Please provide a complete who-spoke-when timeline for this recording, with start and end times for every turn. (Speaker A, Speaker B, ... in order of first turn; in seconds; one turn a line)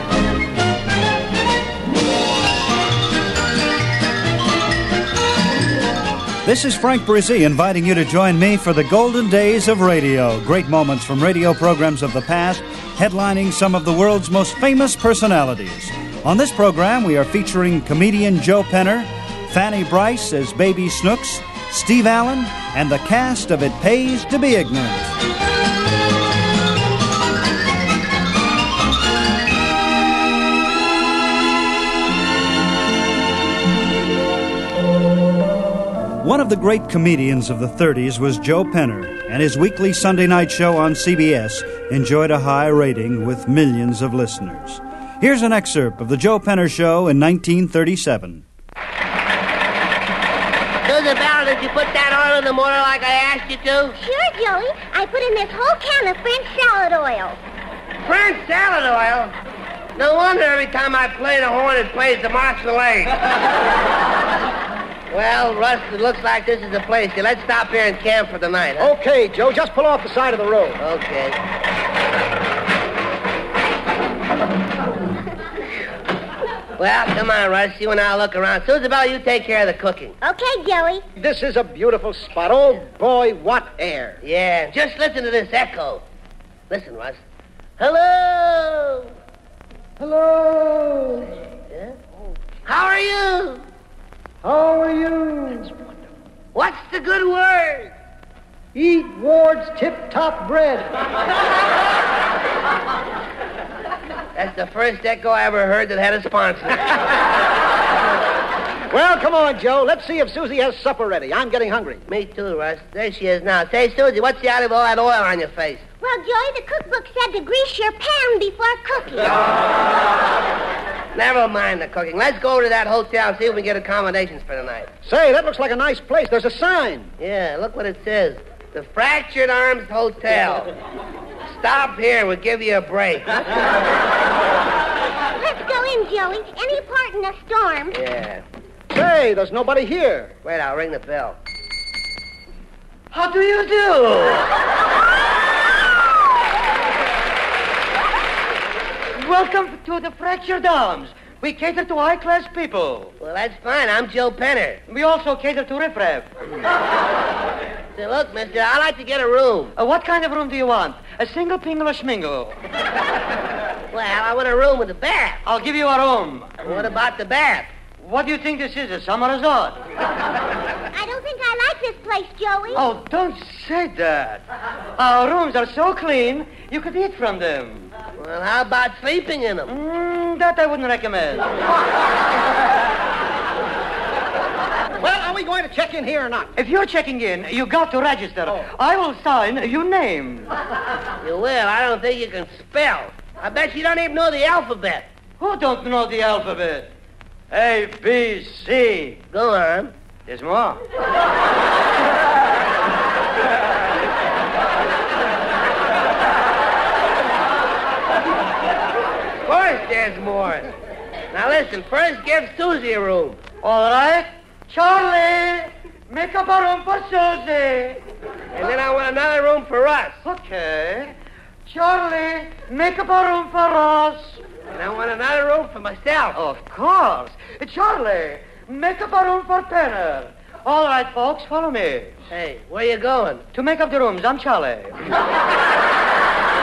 Speaker A: 6.4-25.1
Speaker A: 36.2-48.4
Speaker B: 50.9-54.0
Speaker C: 54.0-57.4
Speaker B: 58.0-59.3
Speaker B: 60.0-63.2
Speaker B: 65.1-68.9
Speaker D: 68.8-70.8
Speaker B: 70.8-71.4
Speaker B: 76.8-80.2
Speaker C: 80.2-81.0
Speaker D: 81.2-84.2
Speaker B: 84.2-86.0
Speaker B: 86.7-87.2
Speaker B: 87.8-89.1
Speaker D: 90.0-91.2
Speaker B: 91.7-92.0
Speaker B: 92.7-93.6
Speaker D: 94.4-95.9
Speaker B: 96.5-97.9
Speaker D: 98.8-101.0
Speaker B: 104.3-106.8
Speaker D: 108.9-112.0
Speaker B: 112.1-115.8
Speaker C: 116.0-119.4
Speaker B: 121.2-124.9
Speaker D: 125.0-127.1
Speaker B: 127.2-130.7
Speaker B: 131.5-133.5
Speaker C: 135.4-138.0
Speaker B: 137.9-138.4
Speaker D: 138.9-140.3
Speaker B: 140.4-141.4
Speaker E: 143.1-144.5
Speaker E: 149.2-153.1
Speaker B: 153.2-154.8
Speaker E: 154.9-156.3
Speaker B: 158.0-159.7
Speaker E: 159.8-162.6
Speaker B: 163.9-165.4
Speaker E: 165.4-166.7
Speaker B: 166.6-167.7
Speaker E: 168.0-169.8
Speaker C: 170.9-172.9
Speaker E: 172.7-174.4
Speaker E: 175.0-177.9
Speaker B: 178.2-179.8
Speaker E: 179.7-181.6
Speaker D: 185.0-186.5
Speaker E: 186.6-190.5
Speaker B: 191.2-195.1
Speaker E: 195.4-196.9
Speaker E: 197.5-199.2
Speaker B: 199.3-199.9
Speaker E: 200.3-200.8
Speaker B: 209.4-210.7
Speaker B: 211.3-213.4
Speaker E: 213.6-218.0
Speaker B: 218.5-220.2
Speaker E: 220.2-221.1
Speaker E: 221.7-224.4
Speaker B: 224.7-226.4
Speaker E: 226.3-232.2
Speaker B: 232.3-233.4
Speaker E: 233.5-235.0